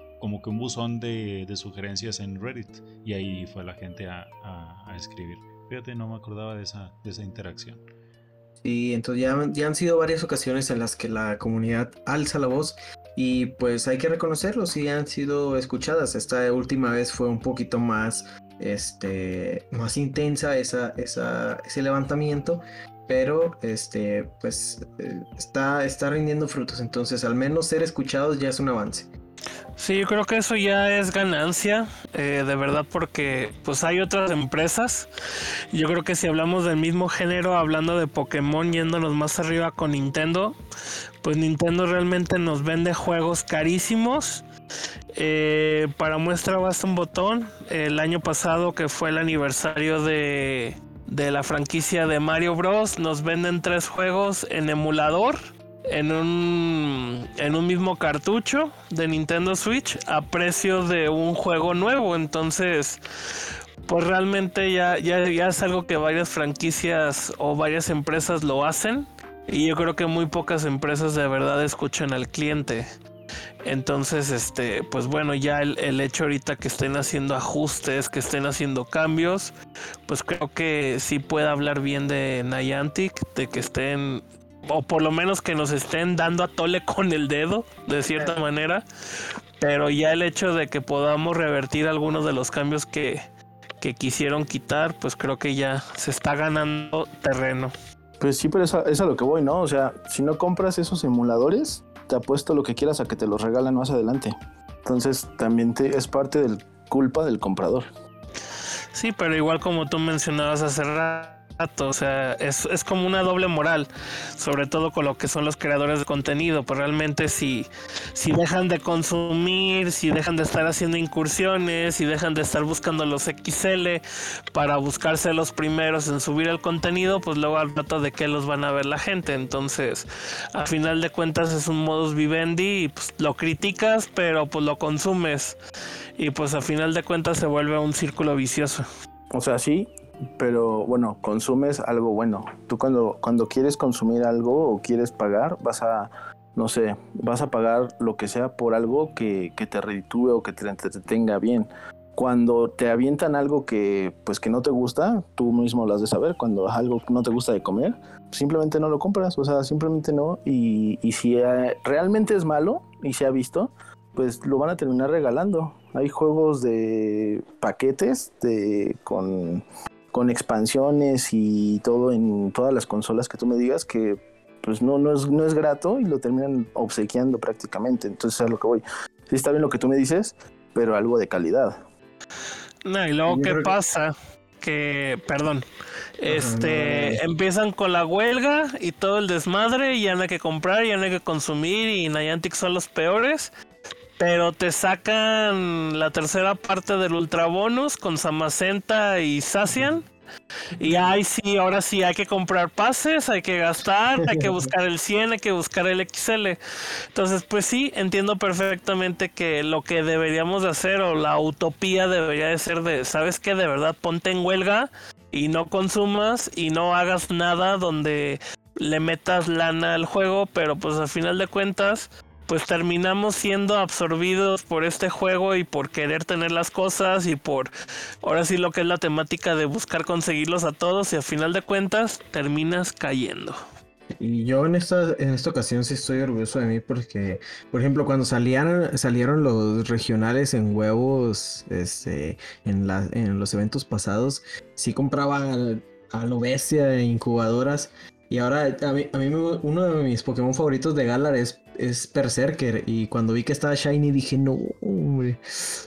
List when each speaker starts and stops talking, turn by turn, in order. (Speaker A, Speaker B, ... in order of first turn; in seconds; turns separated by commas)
Speaker A: 0.2-7.8, Speaker B: 8.6-29.1, Speaker C: 29.8-35.1, Speaker C: 35.7-40.6, Speaker C: 41.2-44.4, Speaker C: 45.1-55.4, Speaker C: 55.9-63.0, Speaker C: 63.9-72.9, Speaker C: 73.6-79.5, Speaker C: 80.1-88.8, Speaker C: 89.6-93.2, Speaker C: 93.8-97.7, Speaker D: 98.2-107.9, Speaker C: 108.9-124.0, Speaker C: 124.5-135.6, Speaker C: 136.2-138.8, Speaker D: 139.3-181.8, Speaker C: 182.8-185.6, Speaker B: 183.3-183.8, Speaker C: 186.2-193.5, Speaker B: 186.3-187.2, Speaker C: 194.2-200.1, Speaker C: 200.8-206.6, Speaker B: 204.2-204.7, Speaker C: 207.1-227.7, Speaker C: 228.2-233.6, Speaker B: 234.2-255.4